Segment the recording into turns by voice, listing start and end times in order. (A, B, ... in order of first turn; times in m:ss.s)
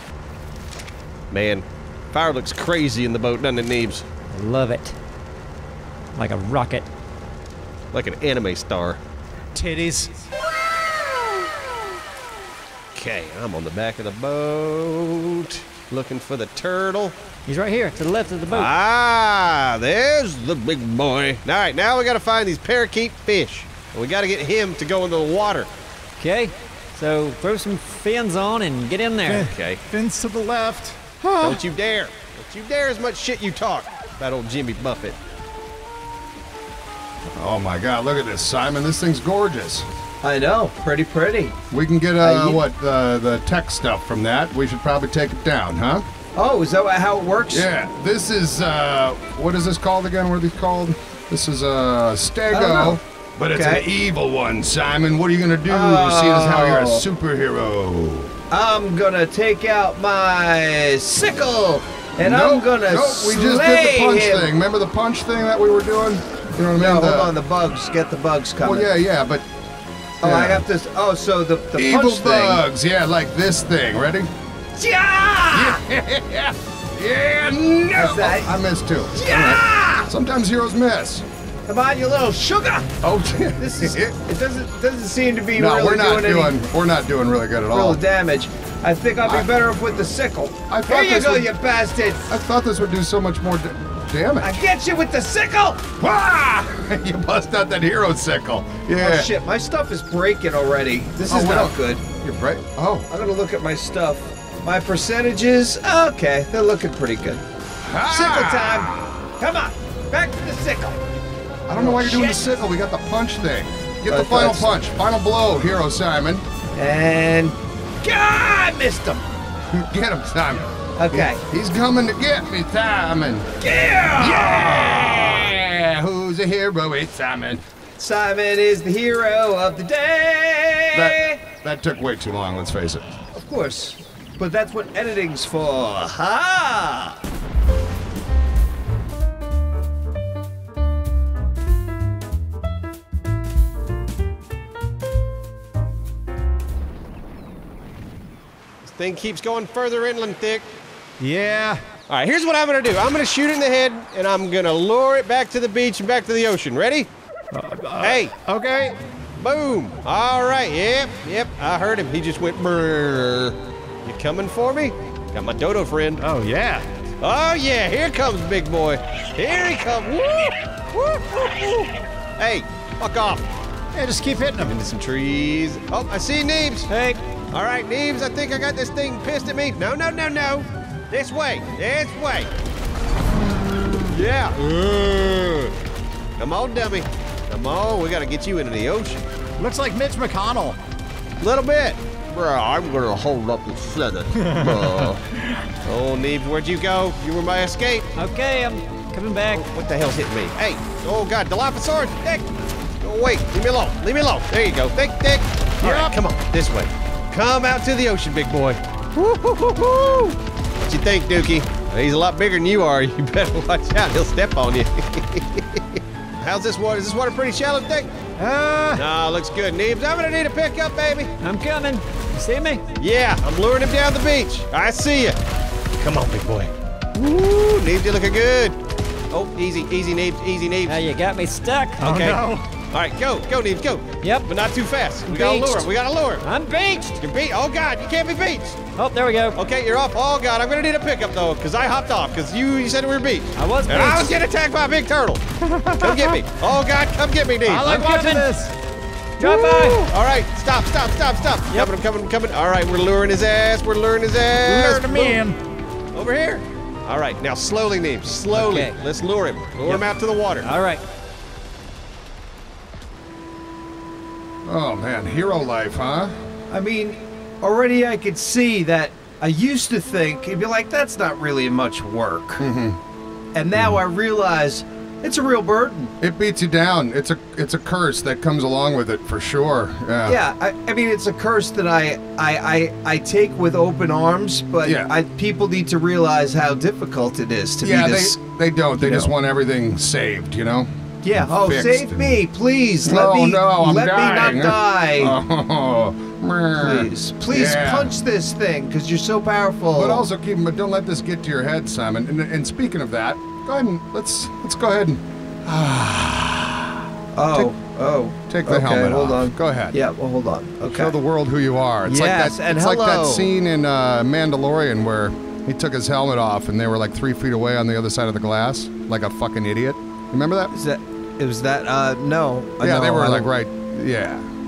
0:01.3-0:04.0 A
0:04.3-0:04.9 B
0:06.1-0:06.9 B
0:07.9-0:09.0 A
0:09.5-0:10.2 C
0:11.2-0:11.4 A
0:12.9-0:17.2 A
0:17.5-0:18.7 B
0:18.5-0:25.7 A
0:26.2-0:29.5 B
0:29.3-0:31.6 C
0:29.4-0:29.8 A
0:31.4-0:35.2 A
0:37.3-0:39.9 D
0:40.2-0:41.6 E
0:41.7-0:46.0 D
0:42.2-0:42.6 E
0:46.3-0:47.7 E
0:47.5-0:58.3 D
0:52.5-0:53.0 E
0:53.5-0:53.8 E
0:55.7-0:57.0 E
0:58.5-1:04.5 E
1:02.2-1:07.3 D
1:06.8-1:08.9 E
1:08.6-1:09.4 D
1:10.2-1:10.6 D
1:10.2-1:12.6 E
1:11.8-1:14.3 D
1:14.8-1:15.8 E
1:15.5-1:21.2 D
1:17.9-1:20.1 E
1:21.7-1:22.9 E
1:23.0-1:24.2 D
1:23.6-1:26.6 E
1:25.6-1:28.0 D
1:27.7-1:32.2 E
1:30.7-1:31.5 D
1:32.2-1:34.6 D
1:34.4-1:35.8 E
1:36.0-1:39.3 D
1:39.0-1:42.0 E
1:41.3-1:43.1 D
1:43.1-1:47.4 E
1:47.8-1:49.2 D
1:48.1-1:51.0 E
1:51.7-1:56.4 D
1:51.7-1:52.4 E
1:54.1-1:54.7 E
1:56.7-1:59.2 E
1:59.7-2:03.5 D
2:01.0-2:01.4 E
2:03.6-2:05.4 E
2:04.2-2:07.6 D
2:08.0-2:11.4 E
2:10.9-2:13.1 D
2:13.3-2:17.2 E
2:28.8-2:30.7 A
2:31.2-2:31.8 C
2:32.1-2:37.1 A
2:37.5-2:39.0 C
2:38.0-2:38.3 A
2:39.4-2:46.2 A
2:46.2-2:46.8 C
2:47.2-2:53.4 A
2:53.9-2:54.7 C
2:54.6-2:56.9 A
2:56.9-2:57.2 B
2:57.5-3:02.5 A
3:04.0-3:05.7 A
3:06.4-3:09.3 A
3:09.6-3:10.8 C
3:11.4-3:15.2 A
3:14.4-3:15.6 C
3:15.8-3:18.1 A
3:18.2-3:19.6 B
3:19.5-3:22.5 A
3:23.0-3:38.1 A
3:25.8-3:26.1 C
3:38.4-3:39.0 C
3:38.9-3:41.3 A
3:41.4-3:42.8 B
3:43.0-3:45.4 A
3:46.0-3:48.8 A
3:49.3-3:51.0 A
3:50.8-3:52.1 B
3:52.0-3:52.4 A
3:52.0-3:52.6 C
3:52.9-3:56.4 A
3:54.2-3:54.5 B
3:55.2-3:55.9 B
3:56.4-3:57.2 B
3:57.2-3:58.8 A
3:58.9-3:59.6 B
3:59.6-4:05.4 A
4:03.6-4:04.4 B
4:05.6-4:06.4 C
4:06.0-4:07.9 A
4:07.6-4:08.7 C
4:07.9-4:08.5 B
4:09.4-4:10.0 B
4:09.4-4:10.0 C
4:10.0-4:15.4 A
4:14.6-4:15.6 C
4:16.1-4:20.7 A
4:18.5-4:19.0 B
4:19.8-4:21.0 B
4:24.6-4:26.3 D
4:26.7-4:32.6 E
4:32.6-4:33.0 D
4:33.5-4:36.1 E
4:36.2-4:40.4 D
4:40.2-4:48.4 E
4:44.8-4:45.1 D
4:47.8-4:52.4 D
4:49.0-4:49.3 E
4:51.2-4:55.3 E
4:53.0-4:58.1 D
4:56.8-5:00.2 E
4:59.9-5:06.9 D
5:07.3-5:11.1 E
5:08.5-5:10.0 D
5:10.9-5:20.7 D
5:12.0-5:13.5 E
5:20.7-5:23.5 E
5:22.8-5:24.5 D